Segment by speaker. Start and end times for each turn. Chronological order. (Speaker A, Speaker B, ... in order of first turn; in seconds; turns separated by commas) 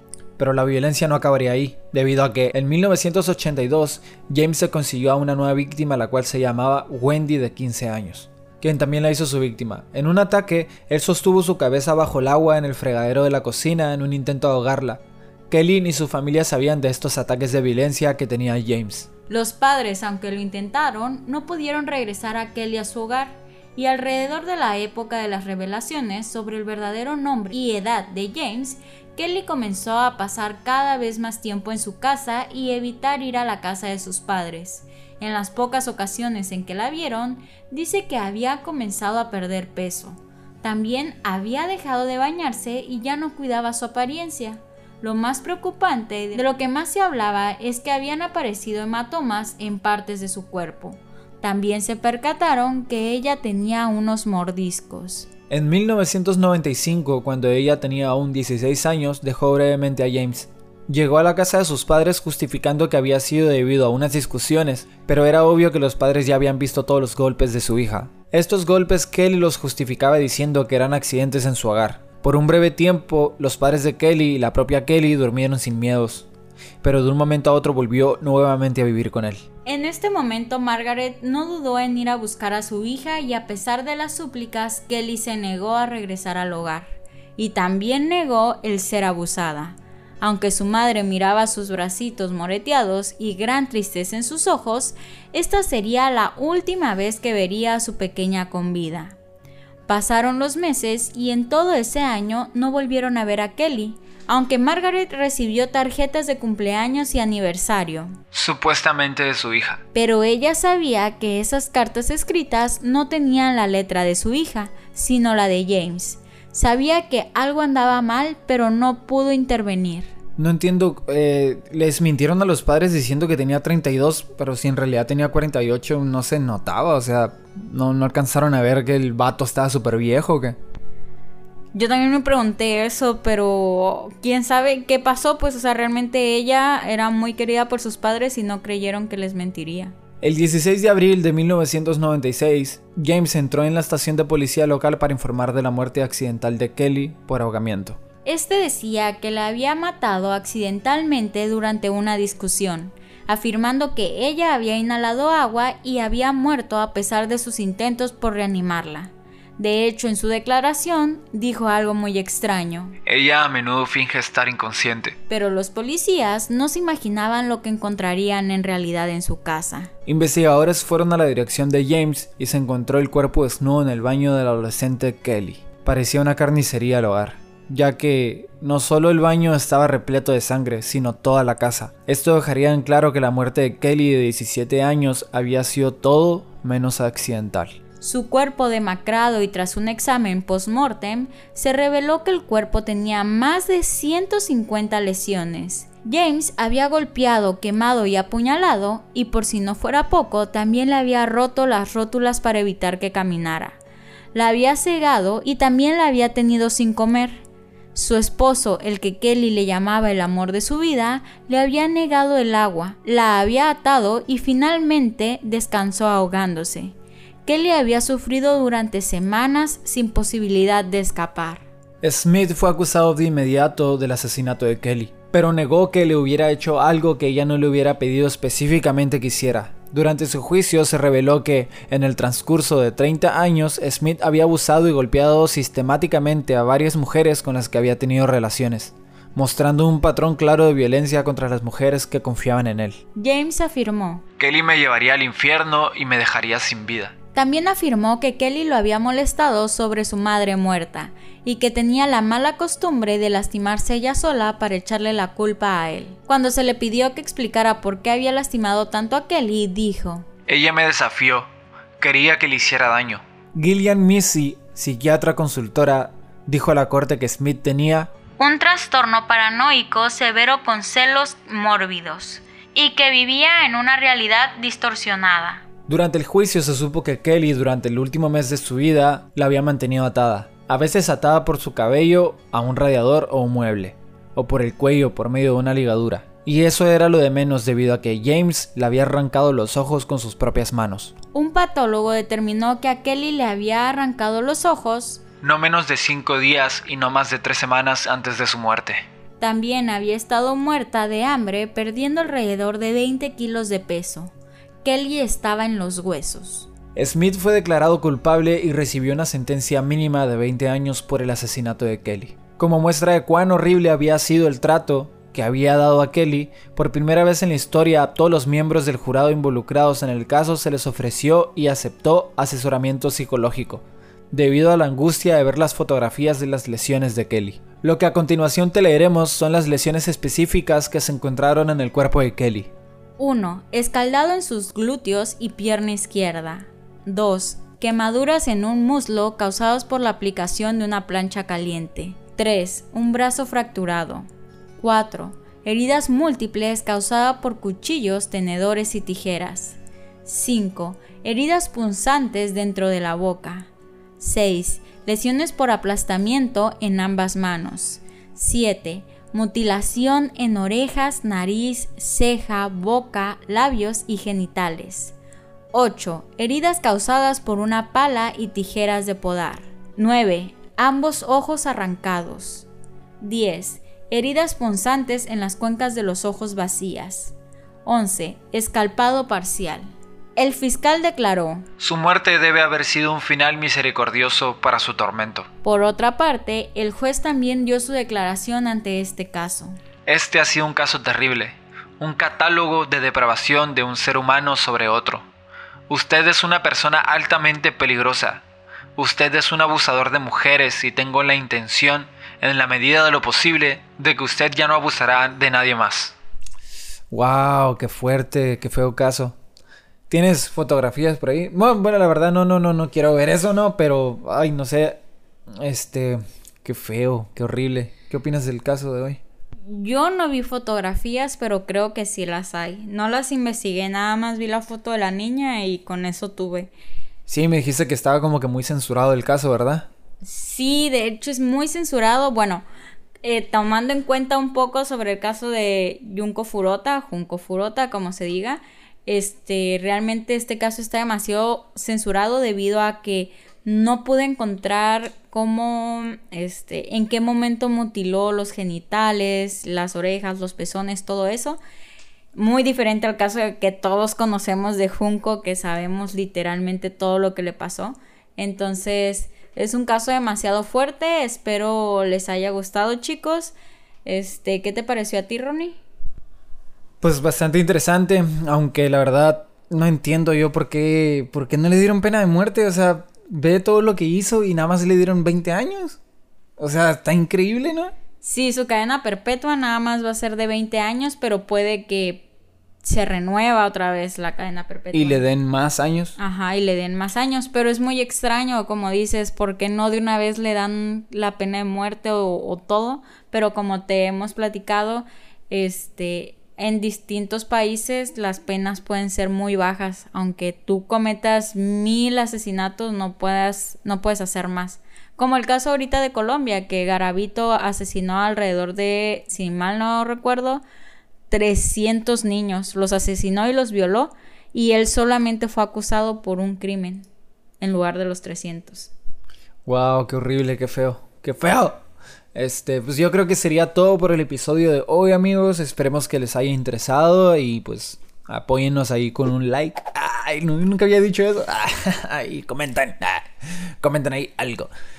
Speaker A: 0.4-19.1, Speaker B: 19.3-55.3, Speaker A: 55.5-76.3, Speaker A: 76.8-79.4, Speaker B: 79.6-99.2, Speaker B: 99.9-108.2, Speaker A: 108.3-109.8, Speaker B: 109.9-120.1, Speaker A: 120.4-130.6, Speaker B: 131.7-139.9, Speaker A: 140.2-148.0, Speaker B: 148.2-163.0, Speaker A: 163.1-165.2, Speaker B: 165.3-169.9, Speaker A: 170.1-187.8, Speaker B: 188.0-203.8, Speaker B: 204.3-207.4, Speaker B: 207.9-221.6, Speaker A: 222.0-243.0, Speaker B: 243.1-244.2, Speaker A: 244.4-247.1, Speaker B: 247.3-260.3, Speaker A: 260.5-268.1, Speaker B: 268.4-275.6, Speaker A: 275.9-291.1, Speaker B: 291.3-295.2, Speaker A: 295.4-299.0, Speaker B: 299.4-304.3, Speaker B: 304.8-306.7, Speaker A: 306.9-332.7, Speaker B: 333.2-344.2, Speaker B: 344.8-365.1, Speaker B: 365.7-372.7, Speaker B: 373.2-381.7, Speaker A: 381.8-385.5, Speaker B: 385.6-389.7, Speaker A: 390.1-395.2, Speaker A: 395.9-398.4, Speaker A: 398.9-406.1, Speaker A: 407.1-409.4, Speaker A: 410.1-415.0, Speaker A: 415.5-419.2, Speaker B: 419.7-426.7, Speaker A: 427.3-429.9, Speaker B: 430.2-432.6, Speaker B: 433.2-451.6, Speaker B: 452.3-465.8, Speaker A: 467.0-476.0, Speaker A: 476.6-477.9, Speaker B: 478.2-482.2, Speaker B: 482.8-485.2, Speaker A: 484.9-486.1, Speaker B: 486.2-510.6, Speaker B: 511.3-517.1, Speaker B: 517.6-518.9, Speaker A: 519.6-521.8, Speaker A: 522.3-534.7